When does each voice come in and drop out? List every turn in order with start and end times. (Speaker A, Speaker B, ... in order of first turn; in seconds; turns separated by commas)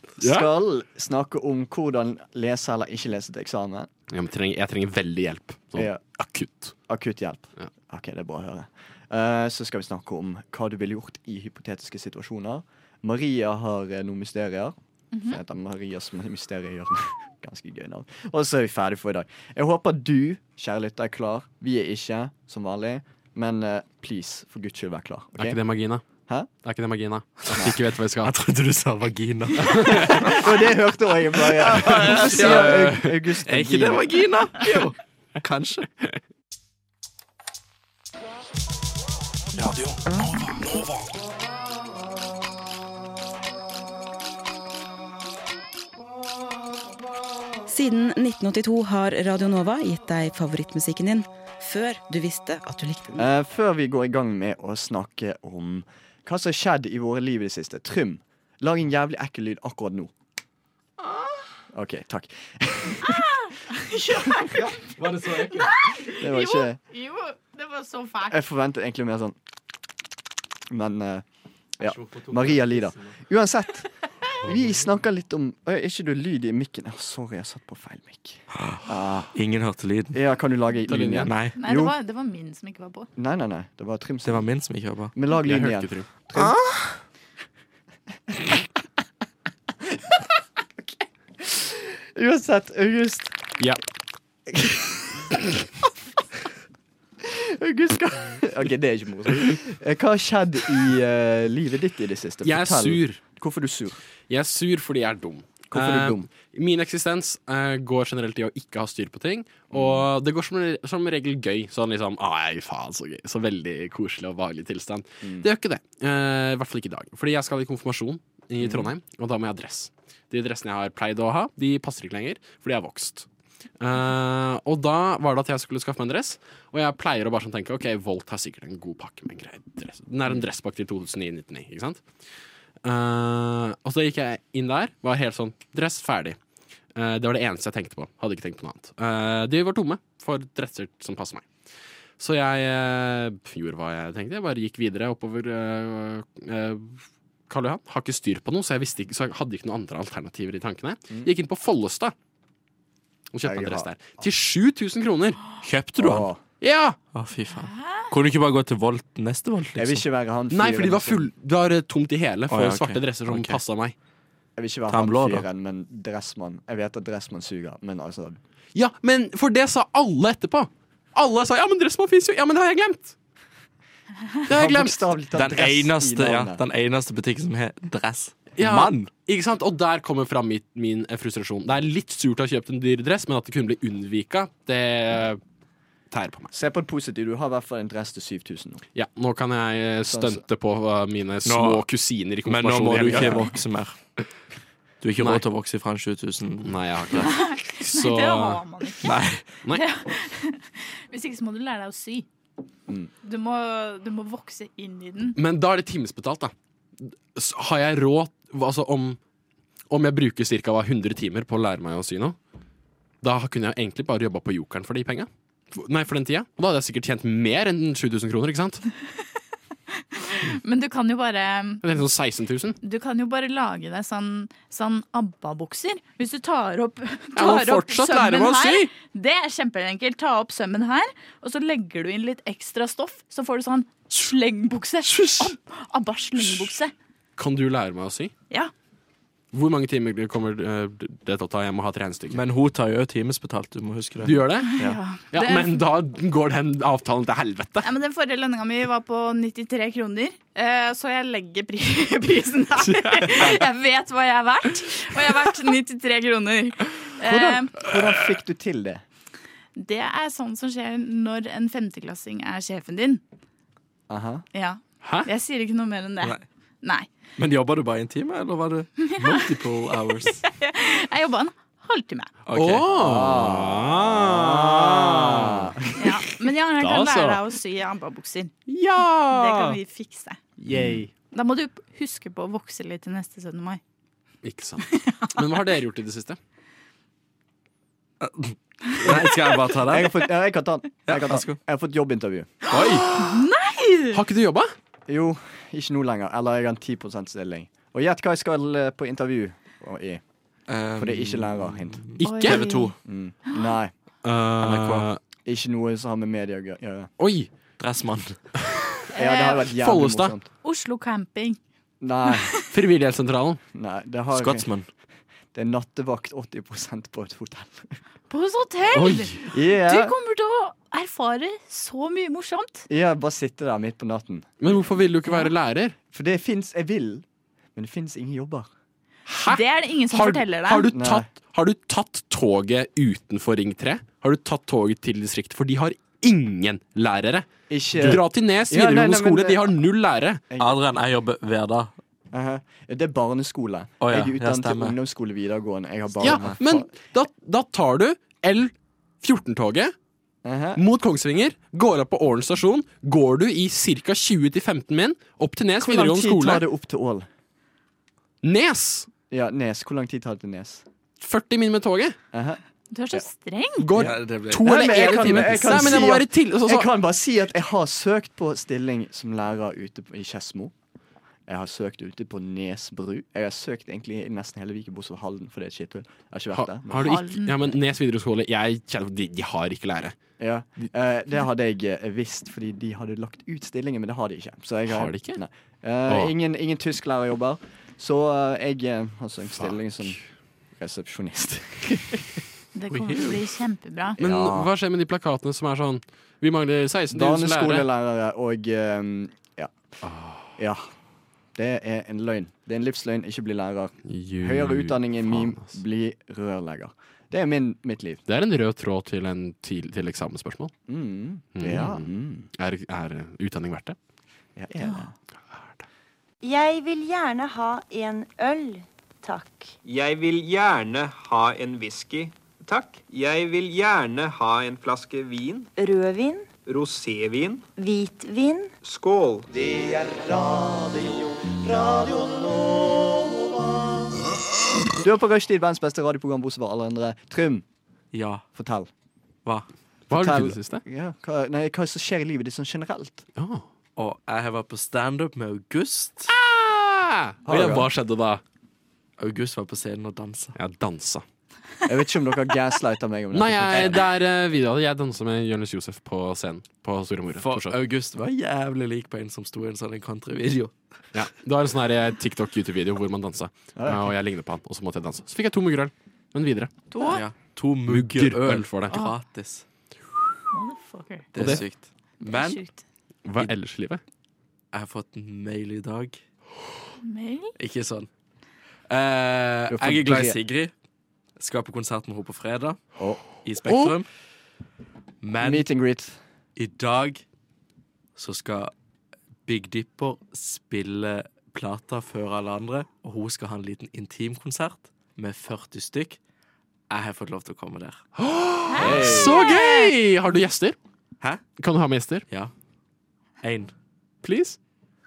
Speaker A: 0.2-3.9, Speaker B: 0.2-0.5, Speaker B: 4.1-6.8, Speaker A: 5.8-6.0, Speaker A: 6.9-25.6, Speaker C: 15.1-15.4, Speaker B: 25.4-26.1, Speaker B: 26.6-28.3, Speaker D: 28.2-30.4, Speaker B: 29.7-30.1, Speaker A: 30.3-34.1, Speaker D: 31.5-35.9, Speaker B: 31.8-33.1, Speaker B: 39.6-40.9, Speaker E: 47.7-53.3, Speaker A: 53.2-60.1, Speaker A: 61.7-63.3, Speaker C: 63.0-64.7, Speaker D: 64.8-65.8, Speaker C: 65.6-68.4, Speaker A: 66.2-66.8, Speaker A: 68.3-69.4, Speaker A: 70.7-71.2, Speaker A: 71.8-79.4, Speaker D: 71.8-73.1, Speaker D: 78.5-80.2, Speaker A: 80.1-82.0, Speaker B: 80.9-81.3, Speaker D: 81.2-81.5, Speaker C: 81.6-83.1, Speaker A: 83.2-84.5, Speaker D: 84.2-85.1, Speaker A: 85.1-86.9, Speaker B: 85.4-86.1, Speaker A: 91.4-93.4, Speaker A: 94.5-95.1, Speaker A: 97.2-104.0, Speaker B: 102.4-103.2, Speaker B: 104.3-123.3, Speaker A: 105.7-106.3, Speaker A: 109.7-110.1, Speaker A: 115.2-115.5, Speaker A: 118.6-118.9, Speaker B: 123.8-132.0, Speaker B: 132.8-136.4, Speaker B: 136.9-141.5, Speaker B: 142.2-152.2, Speaker B: 153.3-155.6, Speaker A: 153.4-154.2, Speaker D: 155.6-156.3, Speaker A: 156.0-156.4, Speaker B: 156.6-157.0, Speaker D: 157.1-160.0, Speaker C: 157.7-158.1, Speaker A: 159.8-161.3, Speaker B: 160.5-163.9, Speaker D: 162.5-163.6, Speaker A: 164.6-168.4, Speaker D: 164.9-165.4, Speaker B: 168.8-173.2, Speaker B: 174.5-175.0, Speaker A: 174.5-176.6, Speaker D: 175.3-179.1, Speaker B: 178.6-185.4, Speaker B: 186.1-186.5, Speaker A: 186.5-188.8, Speaker B: 188.9-193.5, Speaker A: 190.0-190.4, Speaker D: 191.4-191.9, Speaker D: 192.4-194.0, Speaker D: 195.0-197.3, Speaker B: 196.7-198.6, Speaker C: 197.1-199.2, Speaker D: 199.0-199.6, Speaker C: 199.7-202.3, Speaker C: 203.2-205.4, Speaker B: 205.3-206.5, Speaker B: 207.3-209.2, Speaker B: 209.9-212.4, Speaker B: 213.2-218.8, Speaker C: 220.0-221.8, Speaker B: 221.8-222.8, Speaker C: 222.8-236.9, Speaker B: 227.4-228.9, Speaker B: 237.4-238.3, Speaker B: 239.5-242.4, Speaker D: 242.3-244.4, Speaker B: 244.2-247.9, Speaker C: 244.7-245.8, Speaker C: 247.8-257.7, Speaker B: 252.8-253.6, Speaker A: 257.3-259.0, Speaker C: 259.8-263.2, Speaker A: 264.1-264.4, Speaker C: 264.5-267.1, Speaker B: 265.0-265.3, Speaker D: 267.4-270.4, Speaker C: 269.1-269.5, Speaker C: 270.3-272.3, Speaker D: 272.5-272.9, Speaker B: 272.5-275.9, Speaker A: 272.9-275.9, Speaker C: 276.0-278.5, Speaker B: 276.8-277.4, Speaker B: 278.7-279.8, Speaker C: 279.3-280.4, Speaker B: 280.6-281.1, Speaker A: 280.7-281.0, Speaker C: 281.3-283.8, Speaker B: 284.4-286.4, Speaker C: 284.9-285.4, Speaker D: 288.2-290.1, Speaker A: 289.1-292.6, Speaker D: 291.1-291.6, Speaker B: 292.7-293.3, Speaker C: 293.1-294.2, Speaker B: 294.1-294.7, Speaker A: 295.1-300.2, Speaker D: 300.7-302.9, Speaker A: 301.0-302.2, Speaker B: 302.2-302.6, Speaker C: 302.2-302.9, Speaker A: 303.0-303.9, Speaker B: 304.2-305.2, Speaker A: 304.6-307.1, Speaker B: 307.2-307.5, Speaker D: 307.8-308.4, Speaker C: 309.1-309.7, Speaker A: 309.1-310.5, Speaker B: 309.8-310.3, Speaker C: 310.6-311.6, Speaker A: 312.0-312.6, Speaker C: 312.2-312.6, Speaker B: 312.7-313.6, Speaker A: 313.7-314.7, Speaker D: 314.3-314.9, Speaker A: 315.5-318.0, Speaker C: 318.3-322.9, Speaker B: 318.9-319.4, Speaker A: 319.5-320.1, Speaker A: 322.9-324.5, Speaker B: 324.6-325.9, Speaker C: 325.3-325.5, Speaker A: 326.1-328.7, Speaker B: 329.3-340.4, Speaker C: 329.5-330.9, Speaker A: 330.9-331.2, Speaker A: 337.7-339.7, Speaker A: 340.5-340.8, Speaker D: 340.6-341.9, Speaker A: 342.3-346.9, Speaker D: 344.0-345.0, Speaker B: 346.2-349.9, Speaker A: 350.4-350.8, Speaker B: 350.8-356.6, Speaker A: 355.8-357.3, Speaker B: 358.4-359.1, Speaker A: 359.3-360.8, Speaker B: 361.2-362.2, Speaker A: 362.3-362.6, Speaker C: 362.9-363.9, Speaker B: 363.8-366.9, Speaker D: 364.0-366.1, Speaker A: 364.6-370.7, Speaker A: 371.5-377.2, Speaker B: 376.5-380.2, Speaker C: 377.0-377.8, Speaker A: 380.4-390.2, Speaker B: 384.9-385.4, Speaker A: 390.8-392.4, Speaker C: 392.8-394.2, Speaker D: 392.9-393.4, Speaker A: 394.2-394.7, Speaker B: 394.2-397.9, Speaker A: 397.1-399.7, Speaker B: 400.0-400.5, Speaker A: 400.6-400.9, Speaker A: 401.6-408.2, Speaker B: 404.1-405.7, Speaker B: 408.3-410.7, Speaker A: 410.9-412.5, Speaker B: 411.6-414.0, Speaker A: 414.6-415.1, Speaker B: 415.5-415.8, Speaker F: 416.4-419.8, Speaker G: 419.8-425.7, Speaker F: 425.8-426.5, Speaker G: 426.7-427.7, Speaker F: 427.8-428.7, Speaker G: 428.8-429.7, Speaker A: 435.0-437.6, Speaker D: 438.1-438.5, Speaker A: 438.5-438.9, Speaker B: 440.1-440.8, Speaker A: 440.1-443.3, Speaker B: 443.4-443.7, Speaker D: 444.0-446.3, Speaker B: 446.3-448.4, Speaker A: 447.4-447.9, Speaker D: 449.2-450.6, Speaker B: 450.6-451.2, Speaker A: 451.9-454.0, Speaker B: 453.3-457.7, Speaker D: 453.7-454.0, Speaker D: 457.4-460.7, Speaker B: 461.1-466.7, Speaker A: 463.8-464.1, Speaker C: 466.9-467.2, Speaker D: 467.0-469.6, Speaker B: 467.9-468.9, Speaker C: 468.9-469.2, Speaker C: 470.5-471.3, Speaker D: 471.3-472.6, Speaker B: 471.4-471.6, Speaker C: 472.2-472.8, Speaker B: 473.2-474.0, Speaker D: 474.7-476.2, Speaker C: 477.0-477.5, Speaker D: 477.6-478.1, Speaker D: 478.9-480.7, Speaker A: 479.7-480.4, Speaker D: 481.4-482.8, Speaker D: 483.4-484.1, Speaker B: 483.6-483.9, Speaker D: 485.2-485.7, Speaker A: 485.4-486.2, Speaker D: 486.6-487.2, Speaker D: 488.2-488.7, Speaker D: 489.5-496.2, Speaker D: 496.9-498.0, Speaker B: 498.2-500.8, Speaker C: 498.7-499.9, Speaker D: 498.8-499.4, Speaker B: 501.6-502.2, Speaker D: 503.4-503.7, Speaker B: 504.2-504.6